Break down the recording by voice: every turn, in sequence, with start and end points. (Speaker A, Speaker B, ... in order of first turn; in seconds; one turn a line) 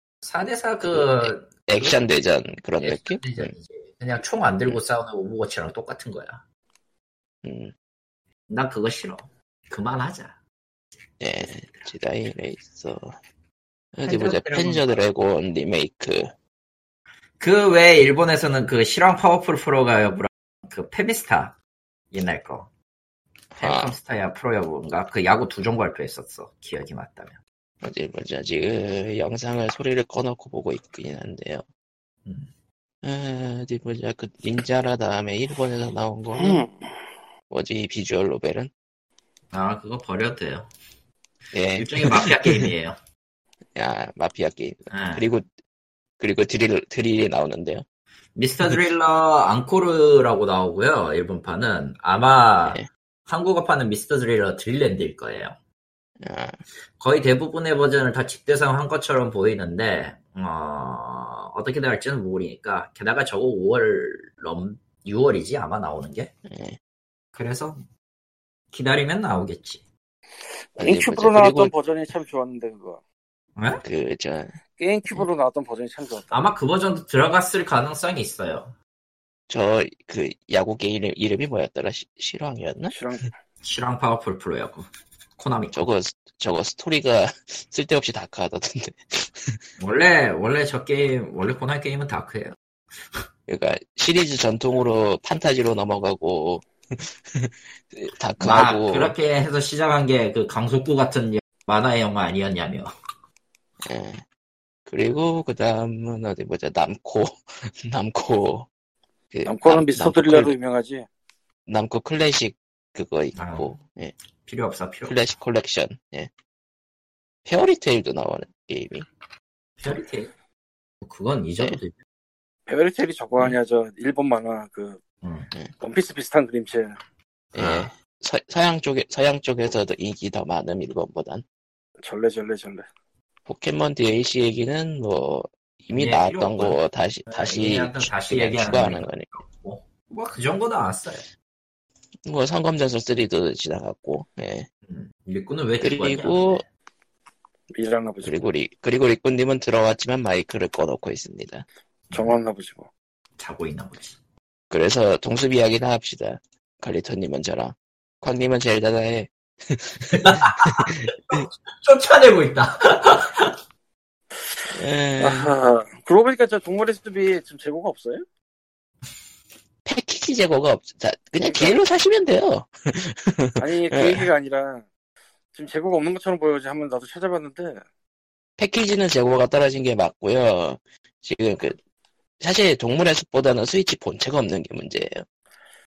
Speaker A: 0.2-2.0
Speaker B: 0.9-3.5
Speaker A: 2.8-6.4
Speaker B: 7.4-7.7
Speaker A: 8.5-10.4
Speaker B: 11.2-13.2
Speaker B: 13.9-16.3
Speaker A: 14.0-15.0
Speaker A: 17.4-21.6
Speaker A: 22.1-22.7
Speaker B: 23.6-23.9
Speaker A: 23.6-27.4
Speaker B: 27.8-31.6
Speaker A: 32.2-32.5
Speaker B: 33.0-36.6
Speaker C: 36.4-36.7
Speaker B: 37.5-38.7
Speaker A: 39.5-40.7
Speaker B: 41.5-42.7
Speaker A: 41.8-43.0
Speaker B: 43.8-45.5
Speaker A: 44.9-45.2
Speaker B: 46.2-47.8
Speaker A: 48.3-55.5
Speaker B: 56.2-56.6
Speaker A: 57.0-66.3
Speaker B: 66.5-66.8
Speaker A: 67.3-67.8
Speaker A: 68.7-69.8
Speaker C: 70.7-73.0
Speaker B: 70.8-71.7
Speaker A: 73.5-73.8
Speaker B: 73.8-74.6
Speaker C: 74.8-76.4
Speaker A: 76.3-78.7
Speaker B: 79.5-83.0
Speaker C: 82.9-83.3
Speaker A: 83.6-85.8
Speaker B: 85.7-89.6
Speaker A: 89.8-92.5
Speaker B: 93.5-99.1
Speaker A: 98.4-102.9
Speaker B: 103.8-104.2
Speaker B: 104.8-108.7
Speaker B: 109.3-110.5
Speaker C: 109.5-111.1
Speaker B: 111.7-114.1
Speaker A: 113.3-113.7
Speaker A: 114.4-115.2
Speaker B: 115.0-116.3
Speaker B: 117.5-119.1
Speaker A: 119.8-120.3
Speaker A: 121.0-122.0
Speaker C: 122.7-125.0
Speaker A: 125.2-125.5
Speaker C: 125.8-127.0
Speaker A: 127.5-127.9
Speaker B: 127.5-131.4
Speaker C: 132.0-132.8
Speaker B: 133.5-139.3
Speaker A: 135.9-141.3
Speaker B: 142.2-144.7
Speaker A: 144.9-146.7
Speaker B: 145.8-146.6
Speaker C: 147.7-148.4
Speaker B: 148.2-151.6
Speaker A: 152.1-152.3
Speaker C: 152.1-152.9
Speaker A: 153.4-154.2
Speaker B: 154.7-161.5
Speaker A: 160.1-163.6
Speaker B: 164.7-165.5
Speaker C: 165.2-168.2
Speaker B: 169.8-174.2
Speaker C: 171.4-171.8
Speaker C: 173.6-174.9
Speaker C: 175.5-177.8
Speaker B: 178.6-181.8
Speaker B: 182.4-185.2